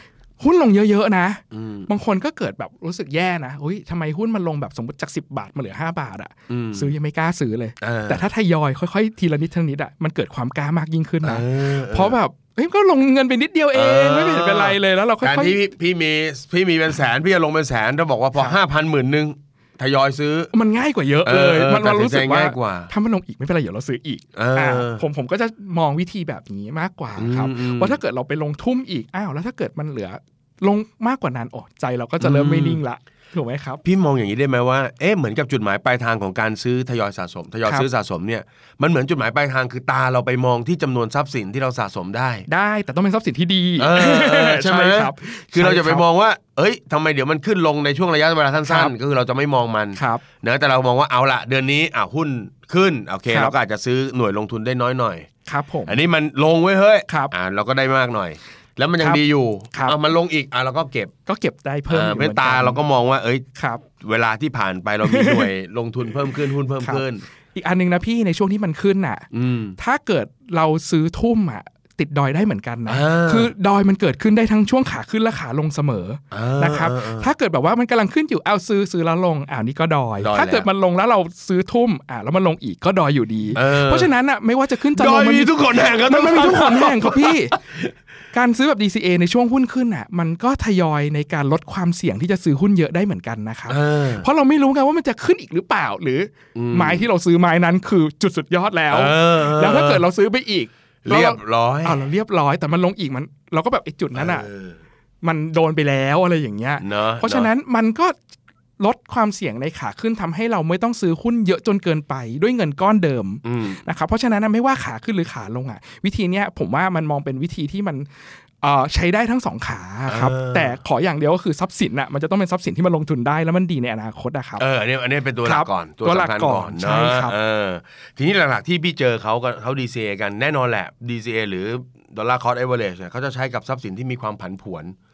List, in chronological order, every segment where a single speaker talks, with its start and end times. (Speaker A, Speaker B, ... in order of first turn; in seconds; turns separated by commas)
Speaker A: 0.4-15.6, Speaker B: 1.5-1.9, Speaker B: 6.5-6.9, Speaker B: 7.8-8.3, Speaker B: 11.2-12.1, Speaker B: 13.7-20.5, Speaker A: 20.5-33.8, Speaker B: 21.2-22.9, Speaker B: 24.3-25.0, Speaker B: 27.1-28.0, Speaker B: 32.2-32.8, Speaker B: 33.8-42.5, Speaker A: 42.5-46.0, Speaker B: 43.8-55.3, Speaker A: 48.7-48.9, Speaker A: 49.9-50.2, Speaker A: 53.3-53.5, Speaker A: 55.5-56.0, Speaker B: 55.9-61.1, Speaker A: 57.1-57.3, Speaker A: 59.0-60.0, Speaker A: 61.2-62.8, Speaker B: 61.9-63.4, Speaker A: 63.5-63.8, Speaker B: 64.0-67.2, Speaker A: 65.0-65.5, Speaker A: 67.5-87.5, Speaker B: 69.3-69.8, Speaker B: 72.9-73.5, Speaker B: 76.3-77.3, Speaker B: 80.2-80.7, Speaker B: 83.5-84.1, Speaker B: 84.9-87.9, Speaker A: 88.3-104.5, Speaker B: 93.7-94.2, Speaker B: 96.5-97.0, Speaker B: 98.9-100.0, Speaker B: 101.0-102.0, Speaker B: 104.1-104.8, Speaker A: 105.2-108.2, Speaker B: 106.8-107.5, Speaker A: 108.8-118.1, Speaker B: 113.4-113.8, Speaker A: 118.6-124.6, Speaker B: 120.1-120.7, Speaker B: 124.6-134.9, Speaker A: 125.4-127.3